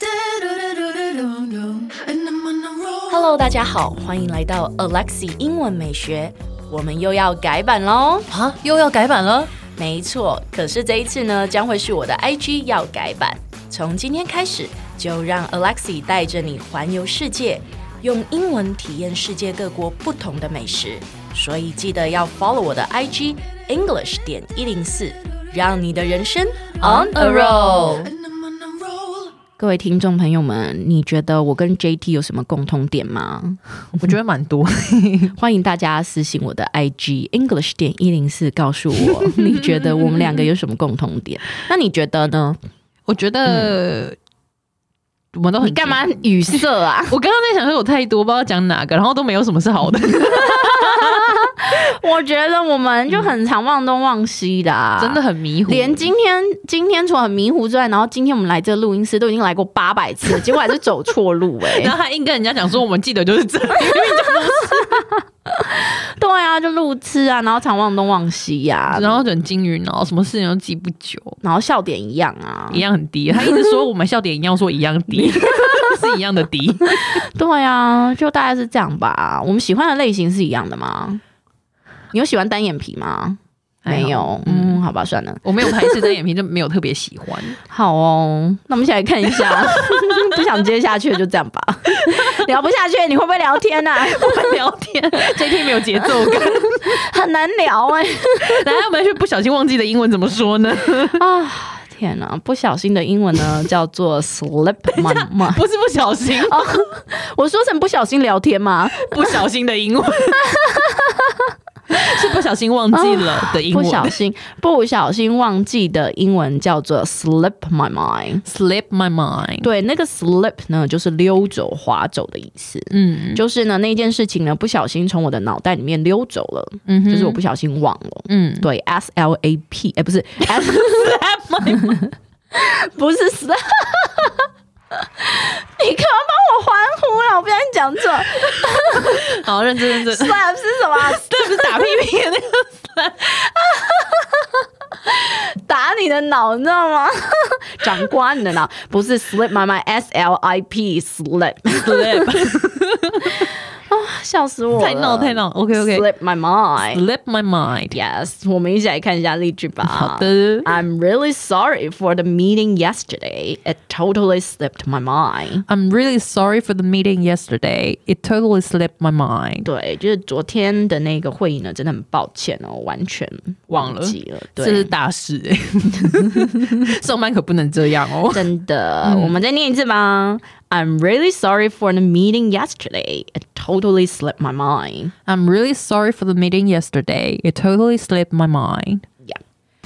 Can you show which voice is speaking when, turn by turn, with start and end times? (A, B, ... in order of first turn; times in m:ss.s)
0:00.2-0:02.7 A
0:03.1-0:08.3 B
0:08.3-0:09.5 A
0:09.8-0:28.1 B
0:26.8-0:28.1 A
0:29.6-0:33.6 B
0:34.0-0:35.4 A
0:35.4-0:42.6 B
0:39.2-0:40.4 A
0:43.1-0:44.2 A
0:45.3-0:51.6 A
0:45.6-0:47.2 B
0:50.4-1:01.9 B
0:55.0-0:56.1 A
1:01.6-1:05.0 A
1:03.8-1:09.3 B
1:08.9-1:11.4 A
1:11.4-1:12.8 B
1:12.7-1:17.2 A
1:15.4-1:15.9 B
1:17.0-1:21.2 B
1:22.1-1:26.1 B
1:23.8-1:24.8 A
1:25.4-1:27.6 A
1:27.7-1:34.6 B
1:29.4-1:30.2 A
1:34.0-1:37.0 A
1:35.9-1:38.6 B
1:38.4-1:41.2 A
1:41.1-1:45.6 B
1:44.9-1:46.8 A
1:46.3-1:49.4 B
1:48.9-1:50.7 A
1:50.7-1:51.3 B
1:51.9-1:54.2 A
1:52.9-1:58.4 B
1:58.4-1:59.7 A
1:59.6-2:22.0 B
2:02.9-2:03.4 A
2:06.9-2:07.4 A
2:08.3-2:08.7 A
2:10.4-2:12.0 A
2:18.9-2:23.4 A
2:23.5-2:32.5 B
2:31.7-2:33.5 A
2:33.4-2:37.0 B
2:34.8-2:36.1 A
2:36.9-2:38.0 A
2:37.9-2:45.6 B
2:39.8-2:40.7 A
2:45.7-2:49.7 A
2:49.6-2:54.9 B
2:53.7-2:58.5 A
2:58.3-3:05.1 B
2:59.0-2:59.4 A
3:05.3-3:09.0 A